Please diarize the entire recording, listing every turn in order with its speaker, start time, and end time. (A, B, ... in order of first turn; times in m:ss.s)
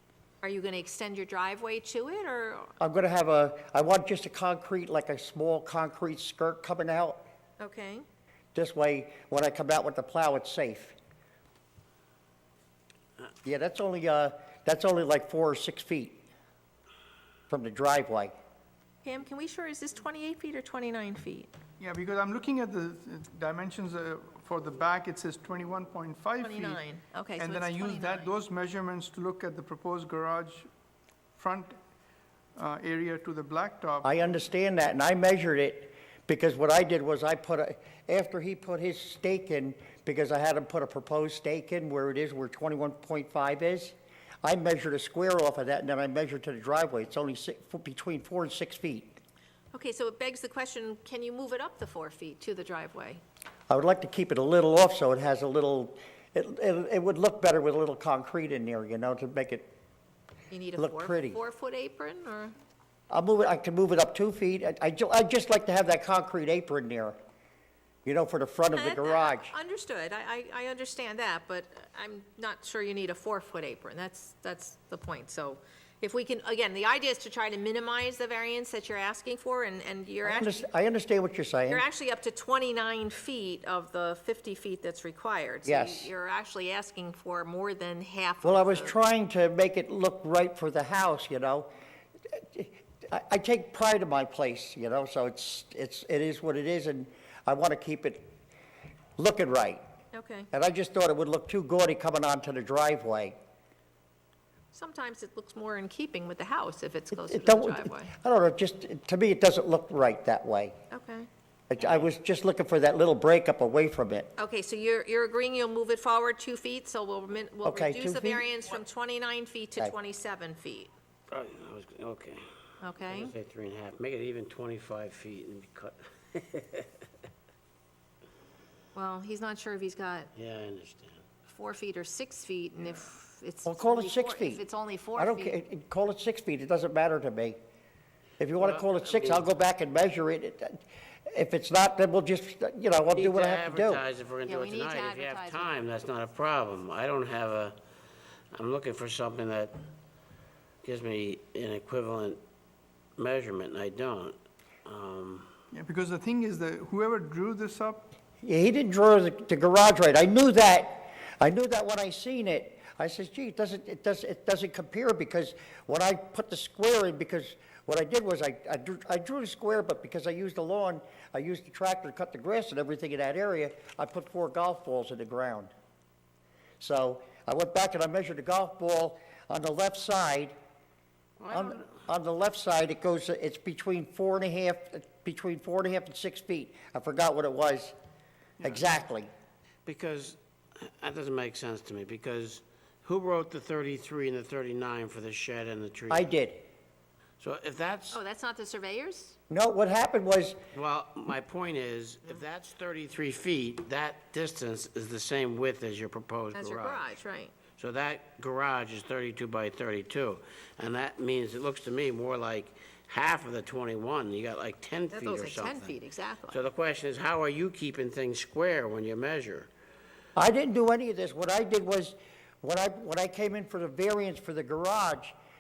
0:00.4-0:02.7 A
0:02.8-0:07.2 B
0:07.6-0:08.0 A
0:08.5-0:11.0 B
0:13.4-0:16.2 B
0:17.5-0:18.3 B
0:19.0-0:21.5 A
0:21.8-0:26.8 C
0:26.4-0:28.3 A
0:27.4-0:30.7 C
0:31.3-0:31.7 C
0:32.6-0:34.1 C
0:34.0-0:49.2 B
0:49.7-0:53.2 A
0:53.7-0:59.7 B
1:00.5-1:02.5 A
1:00.8-1:01.4 B
1:03.1-1:07.2 B
1:08.0-1:09.5 B
1:08.7-1:20.6 A
1:20.2-1:21.8 B
1:21.7-1:28.9 A
1:25.6-1:26.1 B
1:28.4-1:31.7 B
1:32.3-1:38.2 B
1:39.2-1:39.8 B
1:40.1-1:40.5 A
1:40.5-1:43.4 B
1:44.7-1:48.1 A
1:47.2-1:50.8 B
1:50.9-1:51.3 A
1:51.7-1:54.3 B
1:54.4-2:00.9 A
1:57.6-1:58.4 B
2:01.3-2:02.4 D
2:02.8-2:03.3 A
2:03.0-2:07.0 D
2:08.9-2:10.3 A
2:10.3-2:11.2 D
2:11.5-2:15.6 A
2:13.6-2:14.6 B
2:15.2-2:17.6 B
2:18.4-2:24.0 B
2:18.6-2:19.5 D
2:23.1-2:27.8 D
2:24.4-2:25.7 A
2:28.5-2:29.7 D
2:30.8-2:32.4 D
2:33.2-2:35.5 D
2:35.7-2:38.1 C
2:38.4-2:55.7 B
2:56.8-3:00.5 B
3:01.4-3:02.0 D
3:01.5-3:07.9 B
3:08.6-3:08.8 C
3:08.6-3:09.3 B
3:09.8-3:16.3 D
3:16.1-3:16.6 B
3:17.4-3:18.2 D
3:18.1-3:19.4 A
3:19.5-3:20.6 B
3:20.7-3:27.1 D
3:26.5-3:27.5 A
3:27.8-3:36.0 D
3:35.1-3:36.6 A
3:36.5-3:39.7 D
3:40.4-3:45.3 B